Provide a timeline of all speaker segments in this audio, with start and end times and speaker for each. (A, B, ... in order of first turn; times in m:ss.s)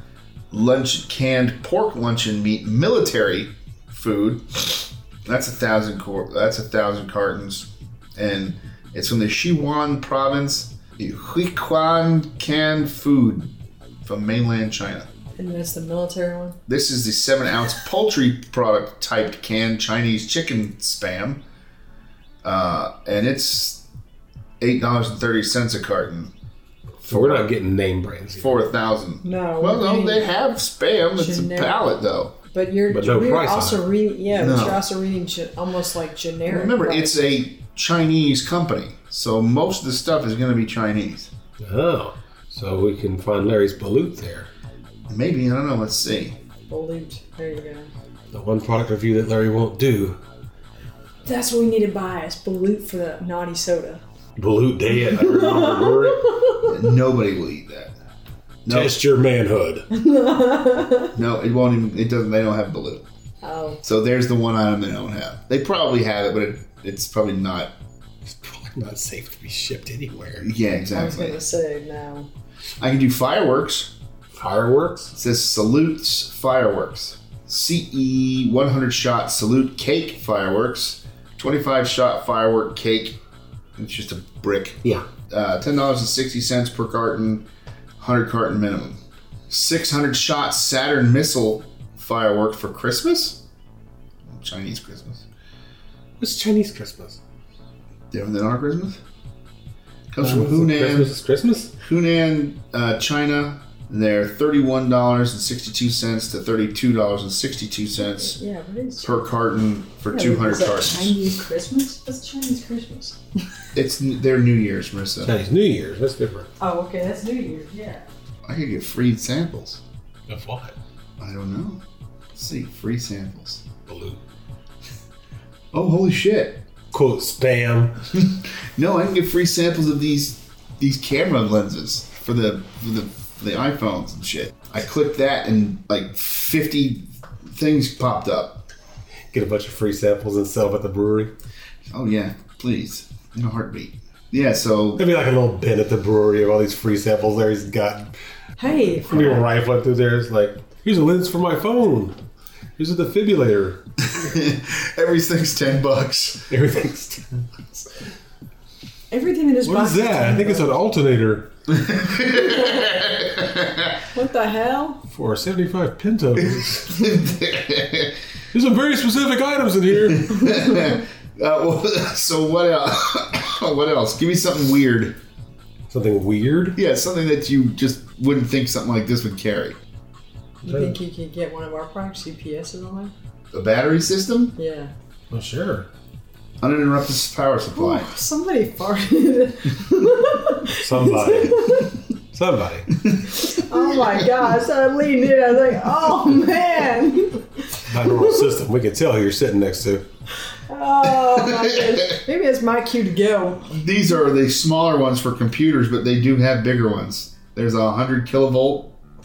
0:00.5-0:13.5 A
0:14.0-0:15.1 A
0:15.4-0:16.6 B
0:16.7-0:21.4 A
0:22.4-0:23.8 A
0:24.6-0:26.3 A
0:27.0-0:27.5 A
0:27.1-0:28.6 C
0:28.4-0:32.3 A
0:29.2-0:30.3 B
0:31.2-0:32.0 B
0:32.5-0:37.2 B
0:32.9-0:33.9 C
0:34.3-0:34.8 A
0:36.5-0:41.3 A
0:41.6-0:44.5 C
0:45.1-0:46.4 A
0:46.7-0:47.9 B
0:48.3-0:50.2 C
0:51.2-0:54.0 B
0:54.4-0:56.3 C
0:55.1-0:56.7 B
0:56.7-0:58.0 A
0:58.6-0:59.0 A
0:58.7-0:59.9 C
0:59.9-1:01.2 B
1:01.1-1:03.0 A
1:03.4-1:03.8 B
1:03.8-1:07.7 A
1:08.2-1:10.5 C
1:10.4-1:11.4 A
1:10.9-1:12.3 B
1:12.8-1:13.9 A
1:14.3-1:15.1 C
1:15.1-1:23.2 A
1:23.8-1:27.4 A
1:28.0-1:33.4 A
1:34.3-1:35.3 A
1:36.2-1:37.2 C
1:38.1-1:39.0 A
1:40.1-1:41.1 A
1:40.2-1:41.7 C
1:41.8-1:48.4 A
1:48.1-1:49.2 B
1:49.0-1:51.2 A
1:50.1-1:53.2 B
1:53.7-1:55.4 A
1:55.2-1:56.5 C
1:56.6-1:58.1 B
1:58.4-1:59.8 A
2:00.3-2:00.8 C
2:01.2-2:01.8 A
2:02.3-2:03.6 A
2:03.9-2:04.2 C
2:05.7-2:06.6 A
2:06.9-2:08.0 C
2:08.1-2:18.7 A
2:19.3-2:21.3 C
2:21.9-2:25.0 A
2:25.0-2:28.1 C
2:28.6-2:29.4 B
2:29.0-2:32.2 C
2:32.8-2:34.0 C
2:34.1-2:36.5 A
2:36.5-2:37.2 C
2:39.1-2:40.8 B
2:39.6-2:41.5 C
2:41.7-2:44.0 A
2:42.4-2:42.8 B
2:44.1-2:45.0 B
2:45.1-2:47.0 C
2:46.6-2:48.2 A
2:48.5-2:50.3 C
2:50.1-2:55.2 A
2:50.5-2:50.8 B
2:55.9-2:56.8 C
2:56.8-2:59.8 A
3:00.6-3:03.1 B
3:00.6-3:01.0 C
3:03.5-3:04.6 A
3:04.6-3:04.9 B
3:05.3-3:05.9 C
3:06.6-3:08.1 A
3:07.7-3:12.0 B
3:10.8-3:13.0 C
3:13.5-3:17.5 B
3:17.9-3:20.0 C
3:18.0-3:18.4 B
3:20.7-3:23.8 B
3:21.3-3:22.2 A
3:23.7-3:28.9 A